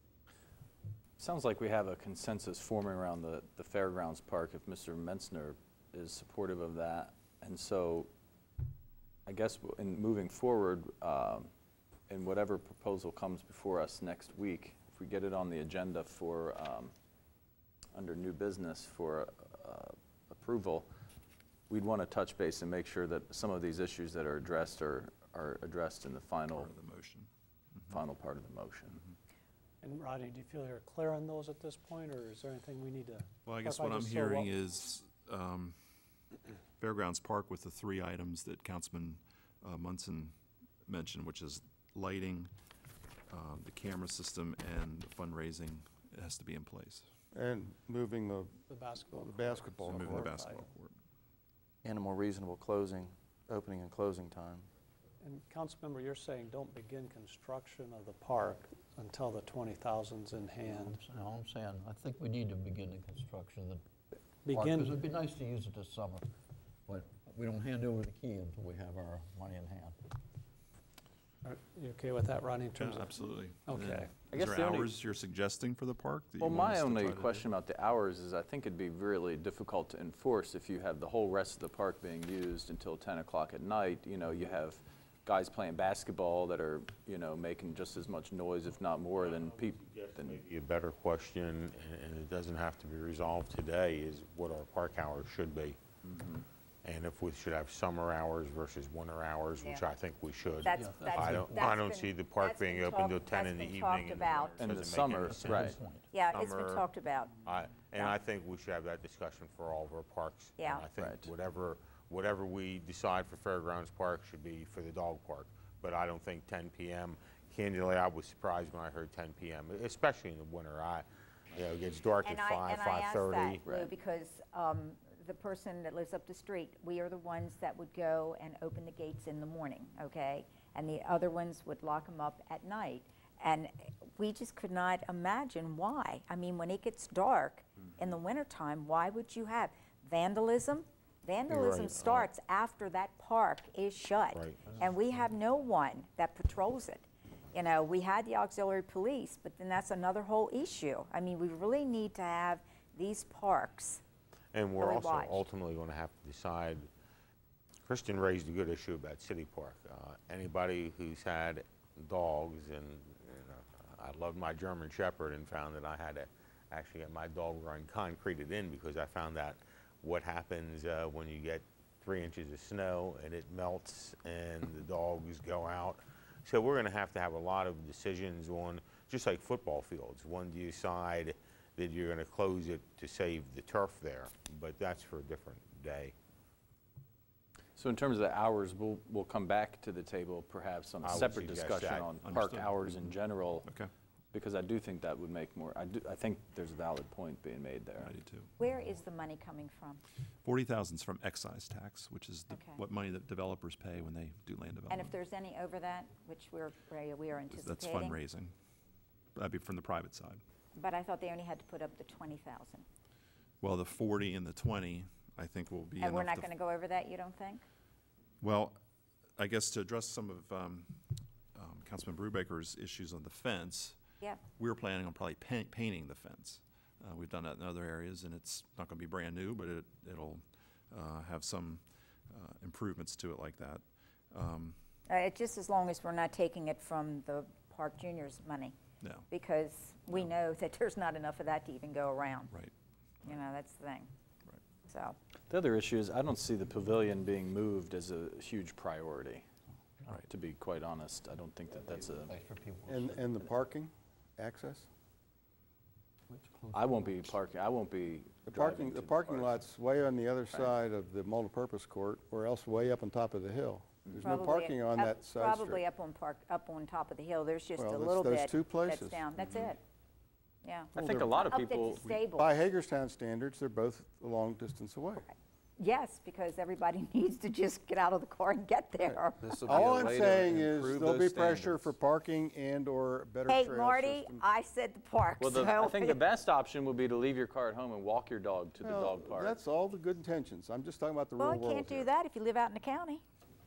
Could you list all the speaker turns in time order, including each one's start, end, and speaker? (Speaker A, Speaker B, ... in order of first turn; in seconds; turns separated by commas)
Speaker A: 1.2-8.1, Speaker A: 9.3-11.5, Speaker A: 12.1-16.9, Speaker A: 17.9-20.9, Speaker A: 21.7-26.7, Speaker B: 26.5-27.9, Speaker A: 27.9-29.0, Speaker C: 29.8-34.5, Speaker B: 33.5-35.8, Speaker B: 36.8-40.3, Speaker B: 40.9-42.5, Speaker B: 43.3-47.1, Speaker D: 47.3-50.3, Speaker C: 48.7-50.7, Speaker B: 49.8-51.0, Speaker E: 51.8-54.7, Speaker C: 55.2-61.0, Speaker F: 60.6-63.8, Speaker C: 64.5-65.0, Speaker F: 64.5-66.3, Speaker F: 66.9-70.0, Speaker C: 71.4-74.2, Speaker B: 72.8-77.5, Speaker A: 74.3-74.9, Speaker A: 76.4-90.4, Speaker G: 89.2-95.8, Speaker A: 96.0-96.5, Speaker G: 96.8-105.8, Speaker H: 99.6-99.8, Speaker H: 100.6-104.7, Speaker F: 100.8-101.6, Speaker A: 104.6-105.8, Speaker F: 105.2-106.1, Speaker H: 106.1-107.4, Speaker G: 106.3-106.8, Speaker G: 107.5-123.7, Speaker H: 110.6-110.9, Speaker A: 110.9-111.3, Speaker H: 122.2-154.0, Speaker G: 141.5-142.3, Speaker G: 144.3-144.8, Speaker G: 154.5-156.9, Speaker H: 154.8-155.5, Speaker G: 157.9-186.1, Speaker A: 187.8-193.7, Speaker G: 191.0-192.1, Speaker B: 192.2-193.9, Speaker A: 194.3-198.1, Speaker B: 198.0-198.5, Speaker H: 198.6-200.0, Speaker B: 200.4-205.2, Speaker H: 202.5-202.8, Speaker H: 204.9-208.2, Speaker B: 207.5-208.5, Speaker B: 209.3-210.4, Speaker H: 210.8-212.9, Speaker B: 213.6-216.5, Speaker H: 216.0-217.7, Speaker B: 218.4-218.8, Speaker B: 219.4-221.0, Speaker B: 221.6-224.0, Speaker B: 224.5-234.8, Speaker H: 235.1-238.8, Speaker B: 239.0-239.3, Speaker H: 239.3-242.6, Speaker H: 243.2-244.1, Speaker H: 244.9-245.2, Speaker A: 245.5-249.4, Speaker A: 250.3-252.3, Speaker F: 251.9-253.4, Speaker D: 252.9-254.9, Speaker F: 256.3-257.4, Speaker A: 256.7-259.6, Speaker D: 258.5-265.8, Speaker H: 264.2-269.8, Speaker D: 267.8-269.3, Speaker H: 270.6-272.5, Speaker A: 270.9-272.2, Speaker D: 271.0-271.6, Speaker D: 272.2-275.2, Speaker H: 275.3-279.7, Speaker E: 279.4-281.9, Speaker D: 279.7-284.5, Speaker H: 283.5-286.2, Speaker A: 285.4-289.6, Speaker D: 288.8-292.1, Speaker H: 291.4-293.2